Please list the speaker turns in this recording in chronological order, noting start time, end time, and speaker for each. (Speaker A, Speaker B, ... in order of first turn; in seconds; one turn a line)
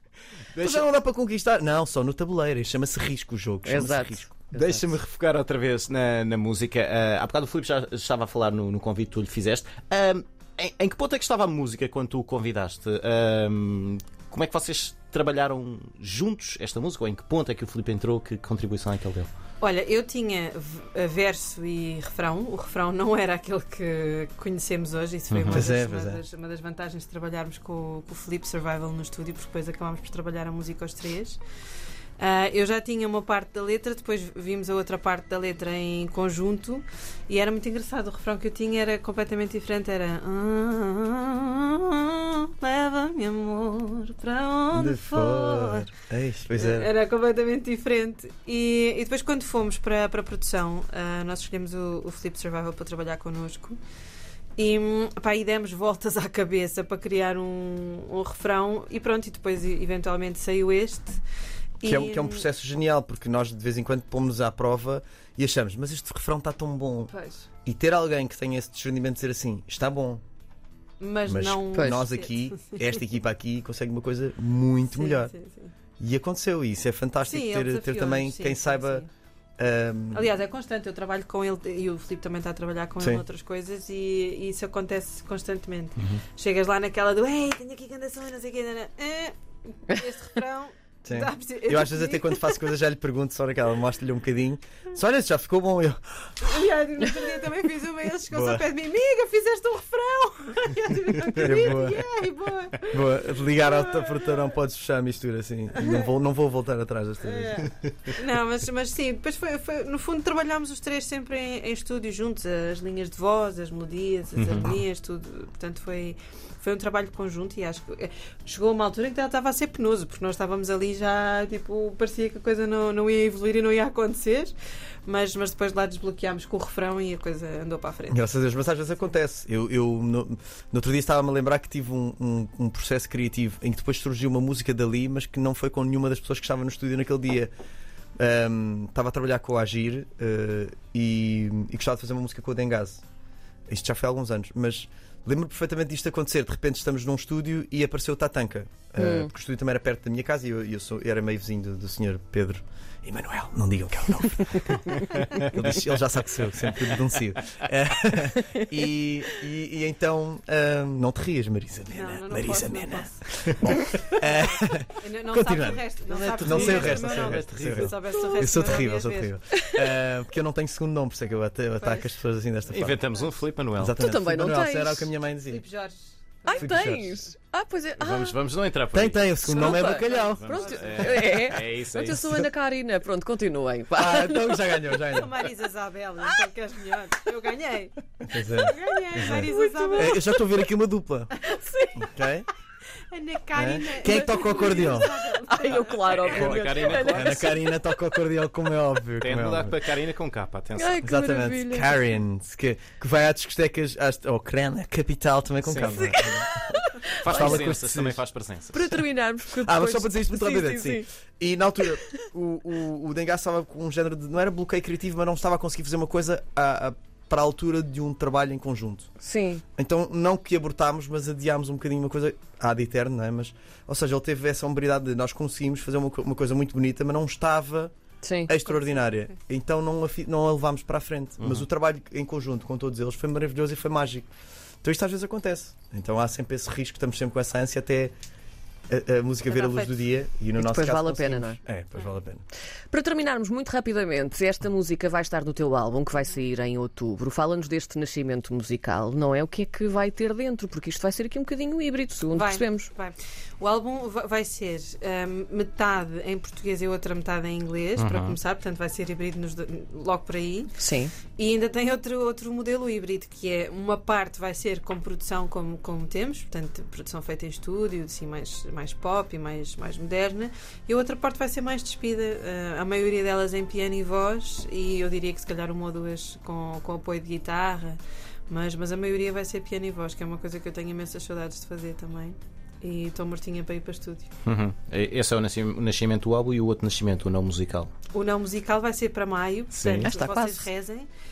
Speaker A: 0.5-0.8
Speaker B: 0.6-5.0
Speaker C: 3.6-4.5
Speaker A: 4.5-19.3
Speaker D: 19.6-31.4
Speaker A: 25.3-25.6
Speaker B: 25.5-26.2
Speaker D: 32.2-45.9
Speaker B: 44.7-46.9
Speaker D: 46.5-53.8
Speaker D: 54.6-61.2
Speaker D: 61.8-62.5
Speaker B: 61.8-67.1
Speaker D: 67.1-67.5
Speaker B: 67.7-70.2
Speaker D: 71.0-73.0
Speaker B: 71.2-75.3
Speaker C: 71.7-72.0
Speaker D: 74.9-75.7
Speaker B: 76.0-79.0
Speaker D: 77.2-79.1
Speaker B: 79.6-80.2
Speaker D: 80.1-92.6
Speaker B: 91.0-96.5
Speaker D: 96.4-104.3
Speaker B: 98.3-98.6
Speaker B: 101.3-102.0
Speaker B: 102.9-107.7
Speaker D: 105.8-106.0
Speaker D: 107.2-124.5
Speaker A: 114.3-114.8
Speaker D: 125.0-128.2
Speaker B: 128.1-137.5
Speaker B: 138.2-143.0
Speaker B: 143.7-165.8
Speaker C: 149.0-149.3
Speaker D: 161.9-163.5
Speaker D: 164.1-169.3
Speaker A: 166.1-167.9
Speaker B: 166.4-173.0
Speaker D: 171.8-172.2
Speaker A: 172.7-174.0
Speaker B: 173.8-175.6
Speaker C: 174.0-175.1
Speaker D: 175.5-176.8
Speaker C: 176.4-178.3
Speaker B: 176.5-177.2
Speaker A: 178.0-179.3
Speaker B: 178.9-181.0
Speaker D: 179.4-181.2
Speaker C: 179.4-184.7
Speaker A: 180.1-182.2
Speaker B: 183.9-185.3
Speaker D: 185.1-190.2
Speaker B: 188.3-191.3
Speaker C: 189.5-190.3
Speaker C: 191.4-192.0
Speaker B: 192.0-192.5
Speaker D: 193.1-196.3
Speaker B: 193.5-195.1
Speaker C: 194.0-197.7
Speaker B: 196.2-199.8
Speaker A: 196.3-197.6
Speaker A: 199.2-201.0
Speaker C: 200.7-202.1
Speaker B: 201.0-206.7
Speaker A: 205.6-206.1
Speaker C: 205.8-207.6
Speaker A: 207.2-208.8
Speaker B: 207.2-208.2
Speaker C: 208.7-211.1
Speaker B: 209.5-219.1
Speaker C: 211.9-212.2
Speaker C: 219.2-219.6
Speaker B: 219.8-227.9
Speaker C: 228.2-228.6
Speaker B: 228.5-234.3
Speaker A: 231.4-231.7
Speaker B: 234.8-238.1
Speaker B: 238.9-242.4
Speaker D: 239.4-240.0
Speaker C: 240.6-241.6
Speaker C: 242.9-252.9
Speaker D: 252.3-260.8
Speaker A: 258.0-258.4
Speaker C: 260.8-261.1
Speaker D: 261.3-284.3
Speaker A: 284.4-287.9
Speaker D: 288.1-291.1
Speaker A: 289.7-290.1
Speaker C: 290.0-290.7